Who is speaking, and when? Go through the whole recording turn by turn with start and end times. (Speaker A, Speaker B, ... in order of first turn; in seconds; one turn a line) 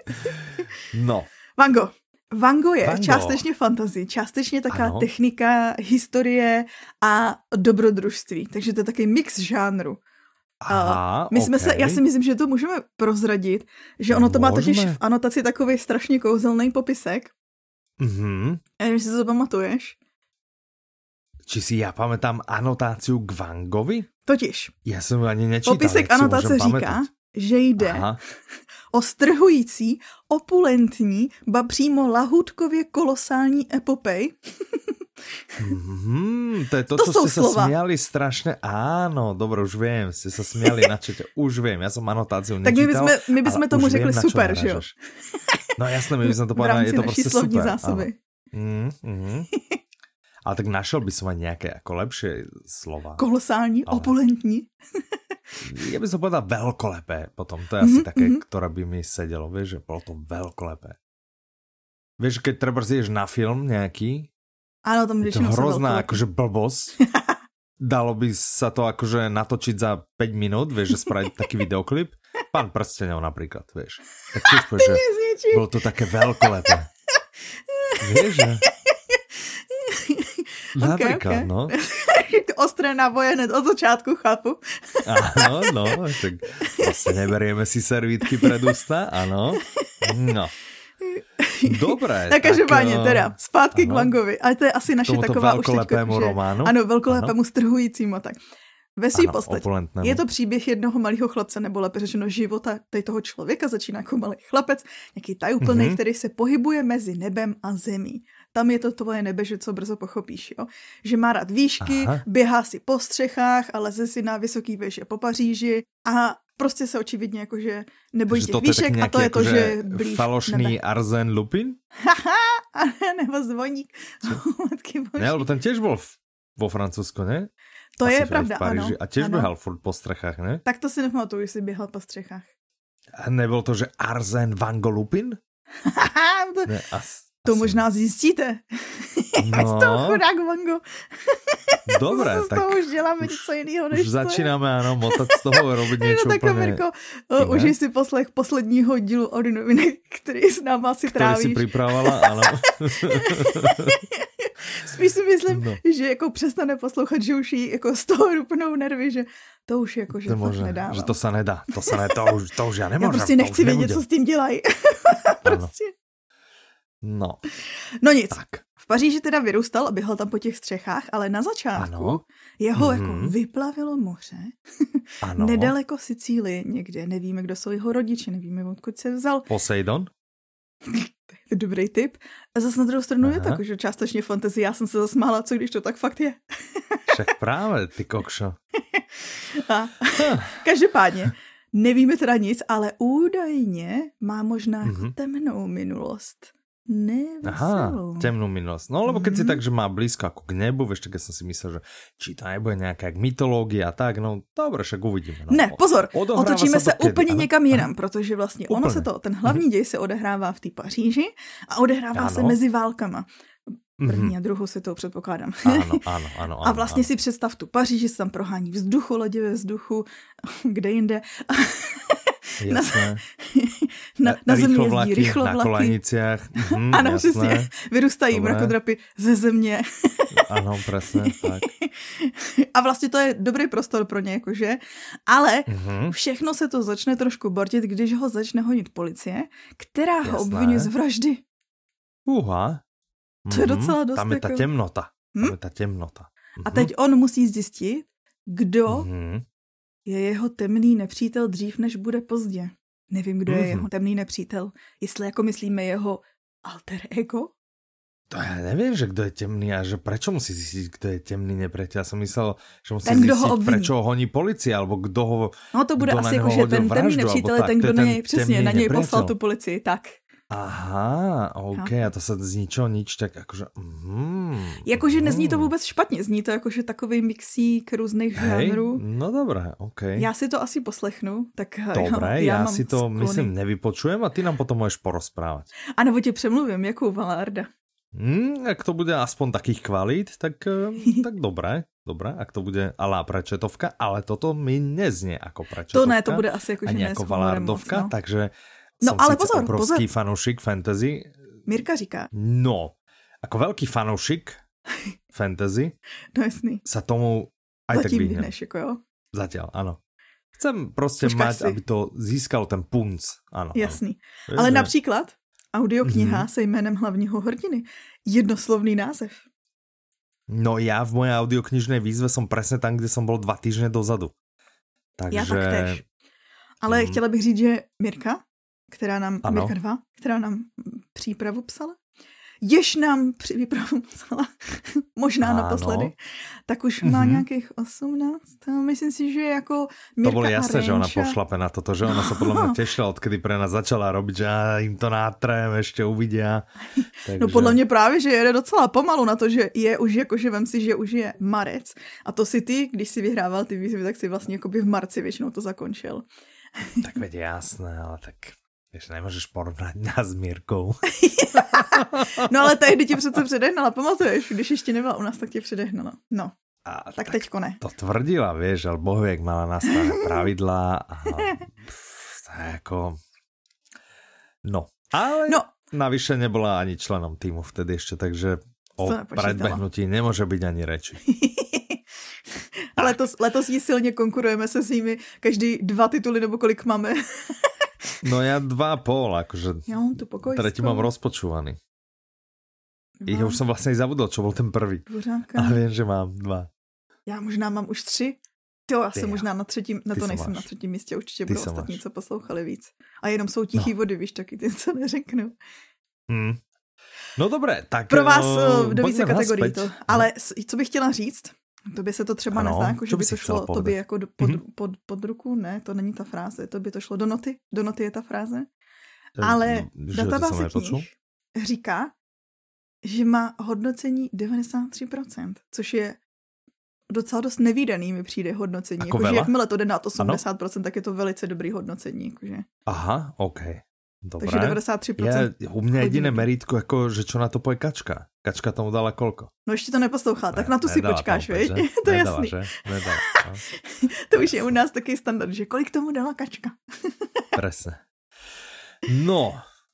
Speaker A: 0.9-1.3
Speaker B: 1.6-10.0
Speaker A: 2.8-3.4
Speaker A: 4.7-5.1
Speaker A: 10.6-12.0
Speaker B: 10.7-17.3
Speaker A: 14.1-15.0
Speaker A: 18.0-18.6
Speaker B: 18.8-19.9
Speaker A: 21.5-24.1
Speaker B: 24.2-24.7
Speaker A: 24.8-27.1
Speaker B: 25.6-28.1
Speaker A: 27.8-28.2
Speaker B: 28.9-35.0
Speaker A: 35.6-44.9
Speaker B: 36.9-37.7
Speaker B: 42.6-44.8
Speaker A: 45.8-49.5
Speaker B: 46.2-48.1
Speaker B: 49.5-49.8
Speaker A: 50.5-53.2
Speaker B: 53.2-54.7
Speaker A: 53.9-54.1
Speaker A: 55.6-61.0
Speaker B: 57.8-58.4
Speaker A: 62.2-64.3
Speaker B: 64.8-66.2
Speaker A: 65.2-67.0
Speaker A: 67.8-76.9
Speaker B: 74.5-75.7
Speaker B: 77.7-86.0
Speaker A: 78.0-78.7
Speaker A: 80.8-81.7
Speaker A: 85.0-90.5
Speaker B: 88.2-88.7
Speaker B: 89.6-90.3
Speaker B: 91.0-98.4
Speaker A: 91.6-94.1
Speaker A: 95.0-97.3
Speaker B: 99.0-120.8
Speaker A: 99.1-100.2
Speaker A: 105.6-106.0
Speaker A: 111.8-112.2
Speaker A: 118.3-121.8
Speaker B: 122.0-125.4
Speaker A: 125.2-127.5
Speaker B: 128.0-129.5
Speaker A: 128.0-130.6
Speaker B: 130.6-132.4
Speaker A: 133.2-135.4
Speaker B: 135.8-136.7
Speaker A: 136.7-137.8
Speaker B: 137.4-161.2
Speaker A: 139.4-140.2
Speaker A: 141.9-146.8
Speaker A: 147.4-147.7
Speaker A: 151.1-154.0
Speaker A: 155.5-155.8
Speaker A: 160.2-164.0
Speaker B: 161.9-162.2
Speaker B: 163.0-165.9
Speaker A: 165.4-165.7
Speaker A: 167.0-167.4
Speaker B: 168.0-179.5
Speaker A: 168.3-168.6
Speaker A: 171.8-172.2
Speaker A: 172.8-173.3
Speaker A: 175.2-175.7
Speaker A: 179.5-180.1
Speaker B: 180.8-187.1
Speaker A: 183.2-183.6
Speaker A: 187.1-188.6
Speaker B: 188.9-198.3
Speaker A: 190.2-190.6
Speaker A: 194.8-195.1
Speaker A: 197.4-207.9
Speaker B: 199.1-199.6
Speaker B: 205.5-213.2
Speaker A: 208.7-209.6
Speaker A: 212.2-212.6
Speaker A: 214.0-214.3
Speaker B: 214.0-216.0
Speaker A: 215.7-217.1
Speaker B: 216.6-225.9
Speaker A: 222.6-223.2
Speaker A: 224.2-227.7
Speaker B: 226.7-230.4
Speaker A: 228.3-228.7
Speaker A: 230.4-231.7
Speaker B: 231.1-241.4
Speaker A: 235.7-236.2
Speaker A: 240.2-240.9
Speaker A: 242.3-242.8
Speaker A: 243.4-246.9
Speaker B: 243.5-244.7
Speaker B: 246.6-249.1
Speaker A: 248.9-249.4
Speaker B: 250.1-257.5
Speaker A: 253.5-253.9
Speaker A: 258.3-269.3
Speaker B: 263.0-263.9
Speaker B: 265.7-270.2
Speaker A: 270.5-275.7
Speaker B: 271.7-272.0
Speaker B: 274.8-279.0
Speaker A: 278.4-280.3
Speaker B: 280.1-283.5
Speaker A: 281.9-285.7
Speaker B: 286.0-287.7
Speaker A: 288.1-301.3
Speaker B: 295.9-298.1
Speaker B: 299.0-300.1
Speaker B: 301.7-302.3
Speaker A: 302.3-304.6
Speaker A: 305.3-305.9
Speaker B: 306.3-306.8
Speaker A: 306.8-308.5
Speaker B: 307.9-309.0
Speaker A: 309.3-310.0
Speaker A: 310.6-314.9
Speaker B: 311.2-311.8
Speaker B: 313.7-319.4
Speaker A: 316.0-316.5
Speaker A: 320.5-324.3
Speaker A: 325.2-326.0
Speaker B: 325.3-326.0
Speaker B: 326.8-332.0
Speaker A: 326.9-327.2
Speaker A: 329.4-329.7
Speaker B: 332.6-336.1
Speaker A: 335.4-336.1
Speaker B: 336.7-341.4
Speaker A: 337.0-337.4
Speaker A: 340.2-346.6
Speaker B: 342.1-342.8
Speaker B: 347.0-356.2
Speaker A: 347.2-347.8
Speaker A: 357.0-361.0
Speaker B: 361.1-366.5
Speaker A: 361.5-362.5
Speaker A: 366.8-373.2
Speaker B: 367.1-367.8
Speaker B: 369.9-370.3
Speaker B: 371.3-371.6
Speaker A: 374.6-381.2
Speaker B: 379.0-379.8
Speaker B: 381.3-382.0
Speaker B: 382.9-387.8
Speaker A: 383.0-383.2
Speaker A: 388.2-389.9
Speaker B: 389.9-391.1
Speaker A: 390.5-391.8
Speaker B: 393.2-393.6
Speaker A: 393.3-395.0
Speaker B: 395.1-395.8
Speaker A: 395.6-396.7
Speaker B: 397.2-405.5
Speaker A: 399.1-399.4
Speaker A: 400.1-400.6
Speaker A: 401.4-402.0
Speaker A: 406.3-406.6
Speaker A: 407.4-410.3
Speaker B: 408.1-418.7
Speaker A: 412.5-414.6
Speaker B: 419.4-422.1
Speaker A: 419.4-421.1
Speaker B: 423.0-426.2
Speaker B: 427.1-432.6
Speaker A: 429.0-429.5
Speaker A: 432.9-439.5
Speaker B: 434.4-436.5
Speaker B: 439.6-447.4
Speaker A: 440.5-443.6
Speaker A: 444.3-444.7
Speaker A: 447.6-448.0
Speaker A: 449.0-449.6